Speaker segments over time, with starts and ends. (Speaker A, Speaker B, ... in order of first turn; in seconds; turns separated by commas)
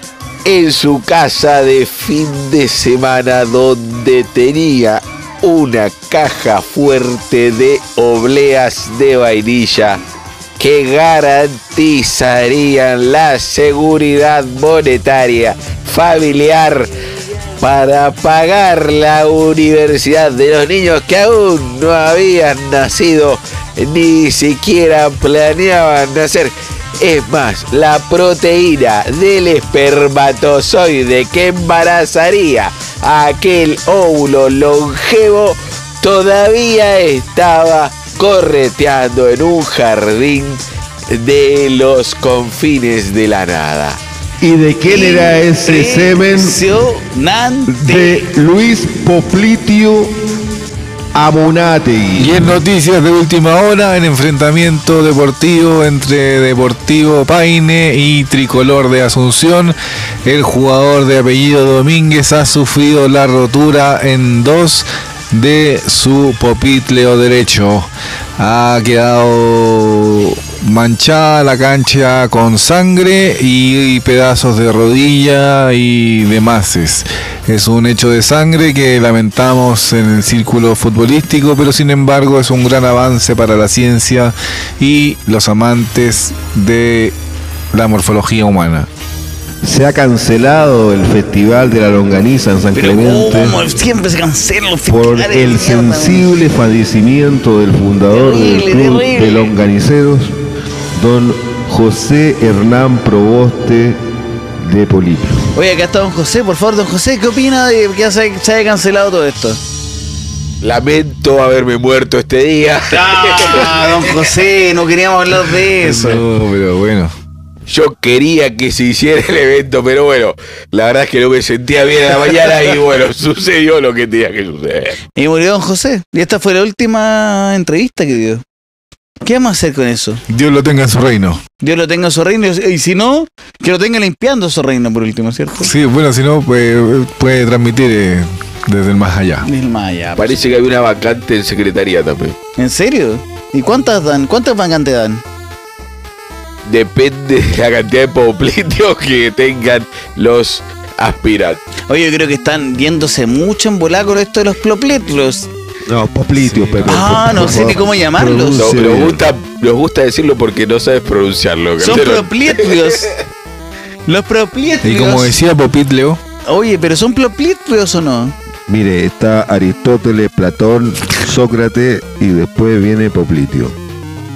Speaker A: 0.5-10.0, Speaker A: 10.6-16.9, Speaker A: 17.6-44.0, Speaker B: 44.4-46.7, Speaker C: 44.9-48.3, Speaker B: 47.7-50.1, Speaker B: 51.1-52.5, Speaker D: 52.2-87.2, Speaker D: 87.7-88.9, Speaker B: 89.6-93.6, Speaker C: 92.7-96.3, Speaker B: 94.9-100.3, Speaker C: 98.1-99.5, Speaker B: 101.0-104.0, Speaker B: 104.6-105.4, Speaker C: 105.5-109.6, Speaker A: 110.6-114.1, Speaker C: 112.9-116.2, Speaker D: 115.8-117.1, Speaker A: 117.7-125.0, Speaker C: 125.2-128.4, Speaker C: 129.2-130.2, Speaker D: 130.3-131.4, Speaker C: 131.6-135.7, Speaker D: 135.6-139.5, Speaker C: 139.4-140.5, Speaker A: 140.2-142.4, Speaker C: 142.6-145.2, Speaker A: 146.7-151.6, Speaker C: 151.9-155.5, Speaker B: 155.9-159.2, Speaker D: 156.4-157.7, Speaker C: 156.9-158.7, Speaker A: 158.6-163.1, Speaker C: 161.8-163.1, Speaker C: 164.1-165.3, Speaker D: 164.8-166.2, Speaker C: 166.5-168.3, Speaker B: 168.7-173.8